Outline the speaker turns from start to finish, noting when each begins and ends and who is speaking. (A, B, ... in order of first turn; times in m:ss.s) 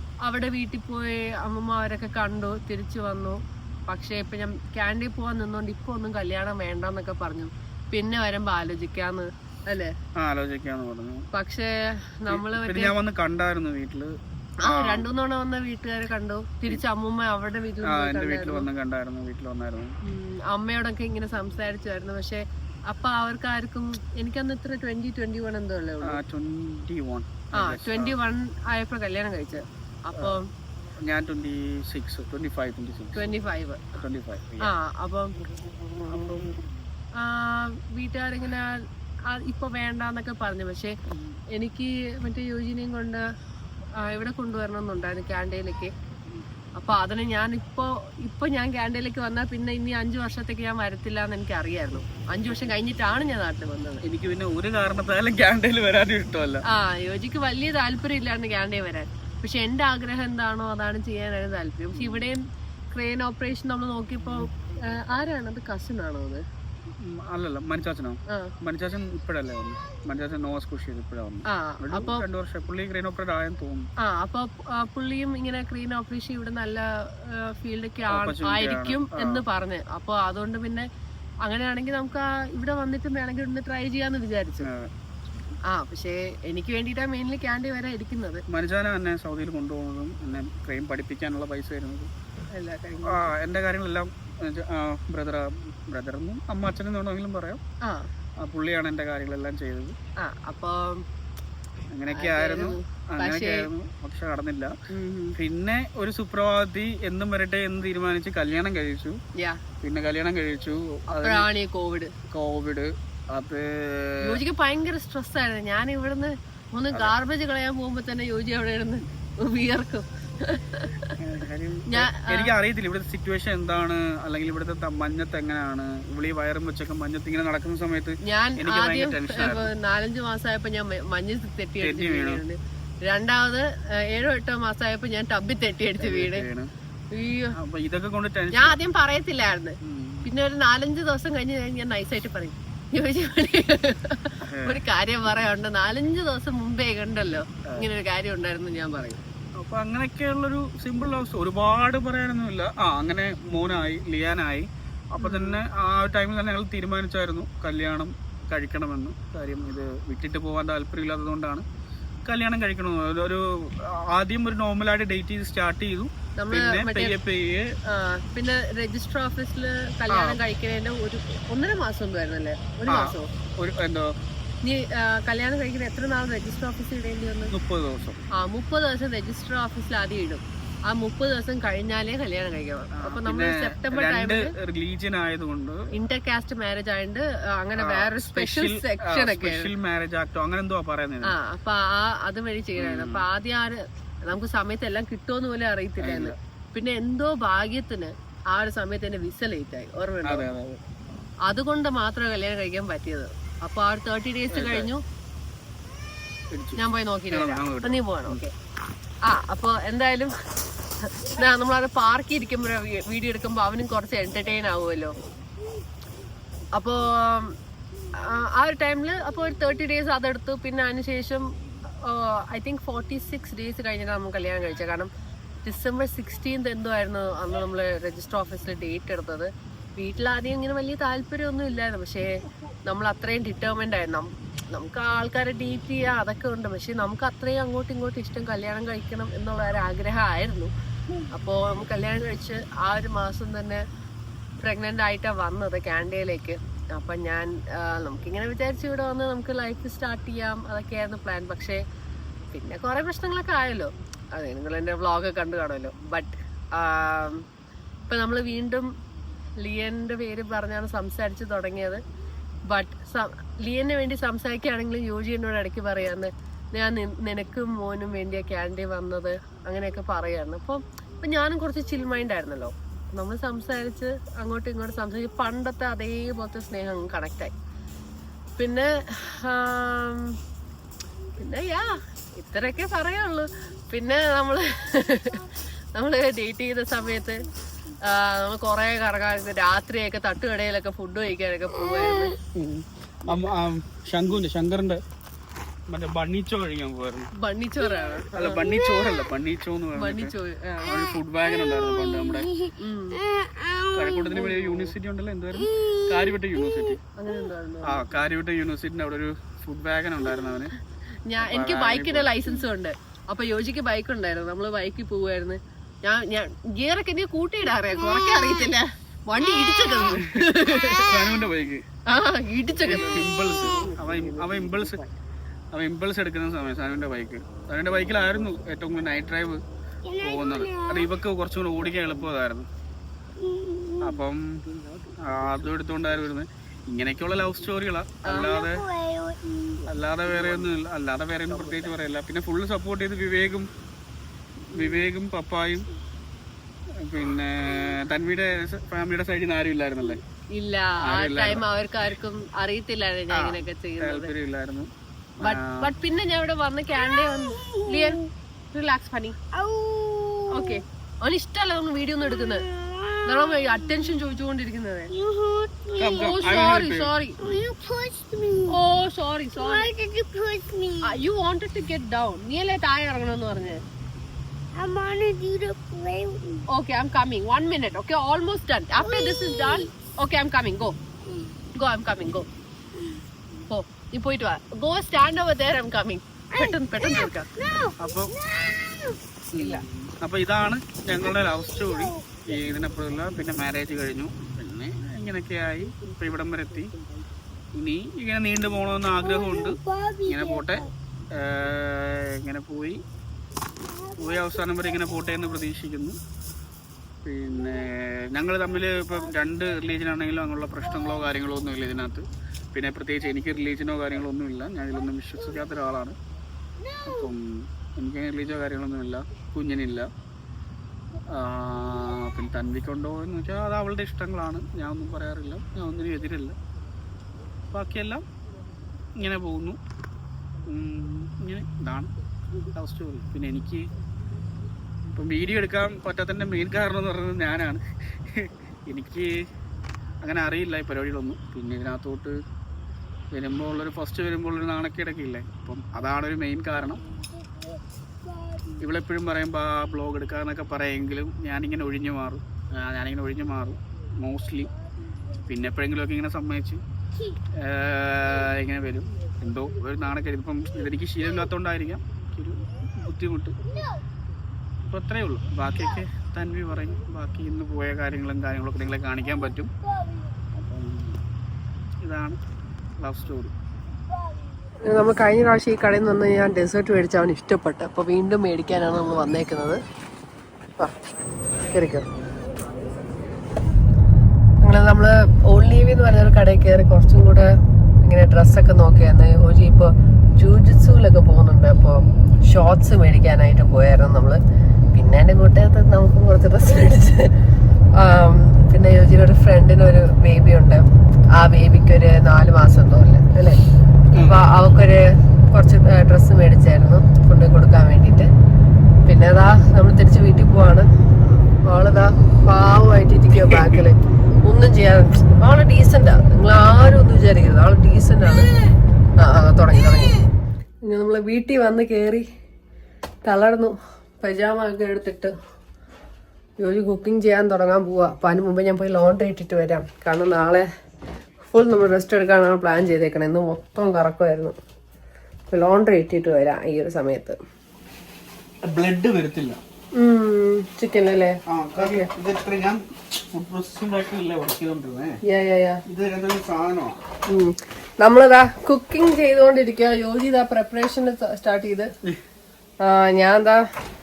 0:00.2-0:09.9 A
0:10.2-0:11.3 B
0:11.3-0:13.0 A
0:12.3-0:15.1 B
0:14.6-0:18.7 A
0:17.8-0:19.9 B
0:20.0-0:26.2 A
0:26.0-0:28.2 B
0:27.5-0:30.5 A
0:31.0-0:33.3 B
0:33.2-0:33.9 A
0:33.9-0:34.7 B
0:34.6-0:35.3 A
0:36.1-0:36.4 A
0:36.1-0:36.5 B
0:37.2-0:41.0 A
0:41.5-0:43.2 A
0:44.0-0:45.9 A
0:46.8-0:54.0 A
0:54.0-0:56.6 B
0:56.7-1:02.4 A
1:01.9-1:02.3 B
1:02.9-1:06.4 A
1:04.2-1:04.5 B
1:07.0-1:13.9 B
1:11.5-1:12.2 A
1:14.0-1:20.9 A
1:18.1-1:19.4 B
1:21.4-1:24.7 A
1:24.6-1:24.9 B
1:25.7-1:28.4 A
1:28.5-1:32.1 B
1:32.5-1:33.3 A
1:33.0-1:37.6 B
1:37.8-1:38.1 A
1:38.4-1:40.0 B
1:40.2-1:41.0 A
1:41.9-1:44.8 B
1:42.1-1:43.7 A
1:44.9-1:45.4 A
1:45.4-1:49.2 B
1:49.4-1:49.6 A
1:49.8-1:51.5 B
1:51.1-1:52.1 A
1:52.3-1:54.4 B
1:54.2-2:01.2 A
2:01.2-2:09.7 B
2:01.9-2:02.5 A
2:08.2-2:16.5 A
2:11.8-2:12.4 B
2:16.0-2:16.7 B
2:17.1-2:17.6 A
2:17.6-2:18.8 B
2:18.5-2:29.2 A
2:19.8-2:20.3 B
2:24.4-2:24.8 B
2:29.6-2:41.7 B
2:35.2-2:35.6 A
2:42.3-2:47.7 B
2:46.4-2:47.2 A
2:47.9-2:53.3 A
2:50.1-2:50.4 B
2:52.9-2:54.1 B
2:54.6-2:57.5 A
2:57.5-2:58.3 B
2:58.3-3:04.5 A
3:03.0-3:05.9 B
3:05.9-3:09.7 A
3:07.8-3:11.4 B
3:11.2-3:20.5 A
3:12.8-3:13.3 B
3:16.0-3:16.4 B
3:20.2-3:20.8 B
3:21.5-3:25.0 A
3:24.5-3:24.9 B
3:26.5-3:28.4 B
3:26.8-3:28.5 A
3:29.2-3:30.3 A
3:31.0-3:35.2 A
3:36.8-3:37.6 A
3:38.2-3:41.5 A
3:42.0-3:45.1 A
3:45.6-4:00.7 A
4:01.3-4:03.8 A
4:04.6-4:11.8 A
4:12.5-4:17.5 A
4:18.1-4:18.9 A
4:19.6-4:22.0 A
4:22.7-4:37.5 A
4:38.6-4:40.4 A
4:41.4-4:45.4 A
4:46.0-4:47.4 A
4:48.0-4:52.4 A
4:52.6-4:55.0 B
4:55.9-4:57.3 B
4:57.4-4:58.6 A
4:58.3-5:02.5 B
4:58.8-4:59.3 C
5:00.0-5:01.1 A
5:01.5-5:04.5 C
5:02.8-5:03.2 A
5:03.9-5:07.0 B
5:04.4-5:04.9 A
5:05.6-5:07.0 C
5:07.2-5:08.2 A
5:07.8-5:10.7 B
5:11.3-5:21.2 A
5:11.4-5:12.4 B
5:18.0-5:18.7 C
5:19.5-5:20.0 C
5:20.1-5:21.8 B
5:22.1-5:25.1 A
5:22.8-5:25.0 B
5:25.7-5:29.6 B
5:30.1-5:31.2 C
5:30.2-5:32.7 B
5:33.4-5:34.2 C
5:34.0-5:34.6 B
5:34.8-5:35.1 A
5:35.2-5:38.8 B
5:38.2-5:38.5 A
5:38.4-5:39.9 C
5:39.9-5:43.7 B
5:41.6-5:41.8 A
5:44.7-5:45.9 B
5:44.8-5:45.0 A
5:47.0-5:50.2 B
5:50.5-5:54.3 A
5:51.0-5:51.7 B
5:53.3-5:54.9 B
5:55.4-5:55.9 B
5:55.4-5:58.2 A
5:56.9-5:58.3 C
5:58.7-5:59.4 A
5:59.5-6:00.8 C
6:00.5-6:02.6 A
6:02.3-6:04.4 C
6:03.2-6:05.1 A
6:05.1-6:06.4 C
6:06.0-6:07.1 B
6:06.1-6:07.4 A
6:07.4-6:08.8 C
6:08.7-6:09.9 A
6:09.6-6:11.2 C
6:11.0-6:13.8 A
6:14.8-6:16.6 C
6:16.7-6:21.0 A
6:19.0-6:19.9 C
6:21.8-6:22.5 A
6:23.7-6:27.5 A
6:26.6-6:29.2 C
6:28.0-6:28.3 B
6:29.5-6:36.9 B
6:29.6-6:29.8 A
6:31.2-6:32.4 C
6:37.7-6:43.0 B
6:39.2-6:40.9 C
6:43.9-6:44.8 C
6:44.2-6:46.2 B
6:47.2-6:56.2 B
6:57.0-7:00.1 B
7:01.3-7:06.6 B
7:07.7-7:08.2 B
7:09.2-7:09.8 B
7:10.7-7:12.1 B
7:12.7-7:13.9 B
7:15.1-7:19.3 B
7:20.2-7:22.4 B
7:23.3-7:27.0 B
7:28.3-7:28.8 C
7:28.8-7:34.7 B
7:35.5-7:36.8 B
7:37.6-7:43.6 B
7:44.8-7:49.7 B
7:50.6-7:51.2 B
7:52.0-7:52.4 B
7:53.0-7:53.5 B
7:54.9-7:59.8 A
8:01.7-8:02.1 A
8:04.6-8:07.5 A
8:08.0-8:14.4 A
8:14.9-8:17.3 A
8:18.0-8:23.6 A
8:24.1-8:24.4 B
8:24.2-8:28.3 A
8:29.1-8:38.5 A
8:33.4-8:33.8 B
8:39.2-8:40.2 A
8:40.8-8:42.2 A
8:43.3-8:45.3 A
8:46.6-8:50.7 A
8:51.5-8:54.6 A
8:55.5-8:57.4 A
8:58.6-8:59.6 B
9:00.0-9:02.1 A
9:01.5-9:05.2 B
9:05.2-9:05.8 A
9:05.9-9:07.0 B
9:07.3-9:11.9 A
9:12.8-9:13.6 A